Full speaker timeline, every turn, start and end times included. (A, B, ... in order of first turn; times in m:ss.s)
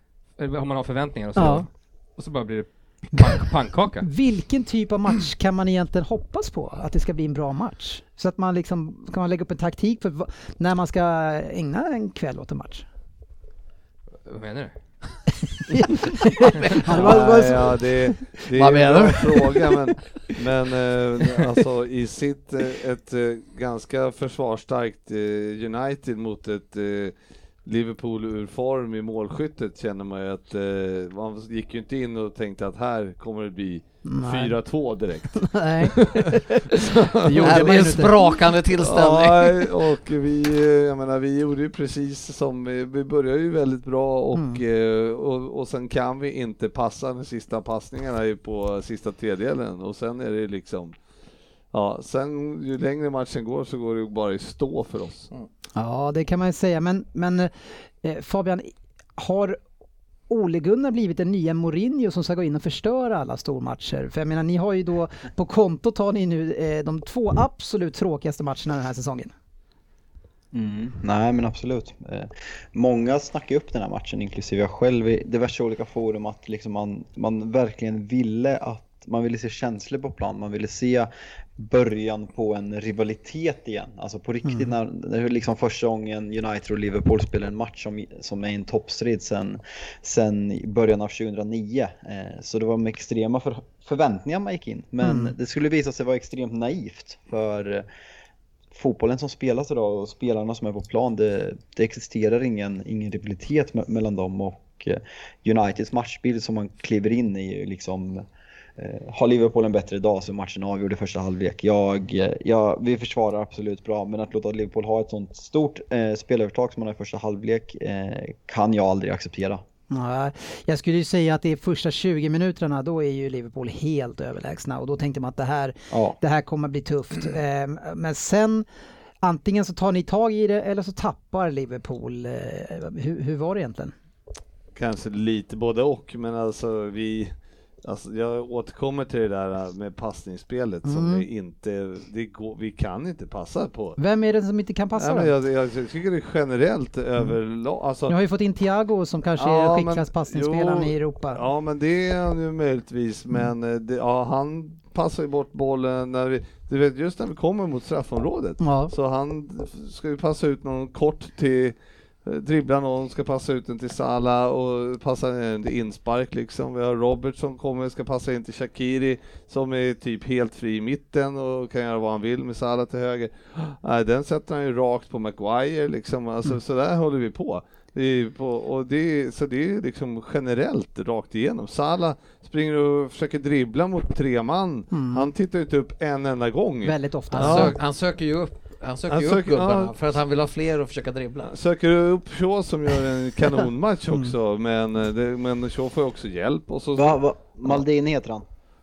0:00.4-0:04.1 A
0:01.4-0:01.7 B
0:03.2-0:03.5 B
0:04.0-0:12.8 B
0:14.3-0:14.7 A
0:15.6-0:17.8 B
0:16.9-0:37.7 C
0:16.9-0:17.4 D
0:18.5-0:19.6 D
0:34.0-0:36.7 B
0:37.2-0:38.3 B
0:37.4-0:39.6 D
0:38.8-0:51.0 C
0:44.3-0:44.6 B
0:51.7-0:55.3 C
0:55.8-0:59.6 B
1:00.3-1:09.3 B
1:10.5-1:37.9 E
1:24.4-1:24.7 B
1:35.0-1:35.4 B
1:38.7-1:48.3 E
1:48.8-1:59.6 E
1:59.9-2:08.6 B
2:05.9-2:06.2 E
2:09.2-2:13.9 B
2:14.8-2:24.0 C
2:20.8-2:21.3 B
2:24.0-2:25.3 B
2:25.0-2:28.2 C
2:28.1-2:31.4 B
2:29.4-3:07.8 C
2:38.6-2:38.9 B
3:04.9-3:05.3 B
3:06.8-3:07.8 B
3:07.3-3:11.6 D
3:09.1-3:10.0 C
3:11.4-3:17.8 C
3:17.0-3:18.4 E